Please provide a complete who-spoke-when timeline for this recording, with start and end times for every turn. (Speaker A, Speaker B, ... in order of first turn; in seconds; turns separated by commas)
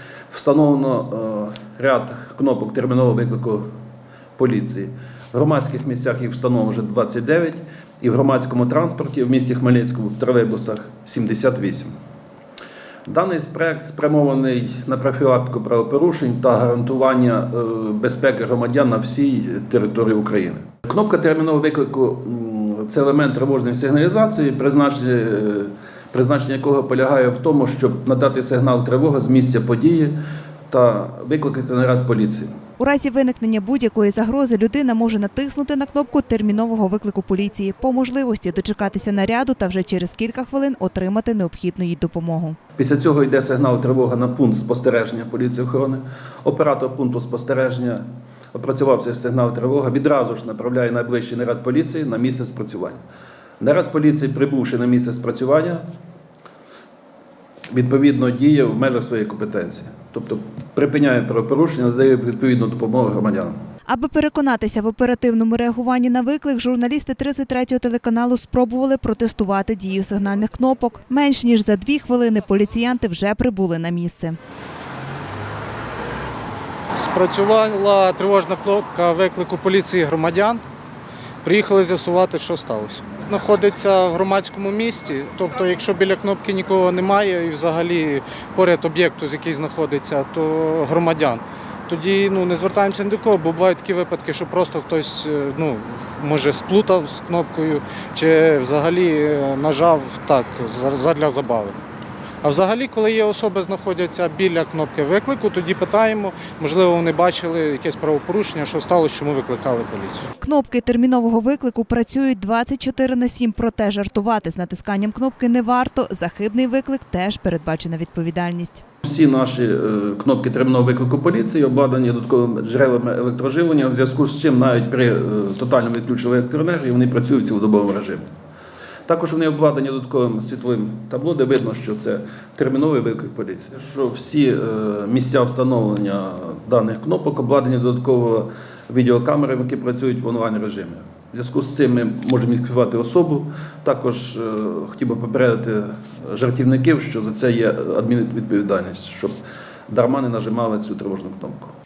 Speaker A: 0.3-3.7, Speaker A: 4.4-11.9, Speaker A: 13.1-30.1, Speaker A: 30.7-32.5, Speaker B: 32.8-42.6, Speaker A: 42.8-53.0, Speaker A: 53.6-55.9, Speaker A: 57.7-63.6, Speaker B: 63.9-74.4, Speaker C: 76.9-80.6, Speaker C: 81.4-101.8, Speaker C: 102.4-110.3, Speaker B: 110.4-118.8, Speaker A: 119.0-128.2, Speaker A: 129.1-149.4, Speaker A: 149.9-151.7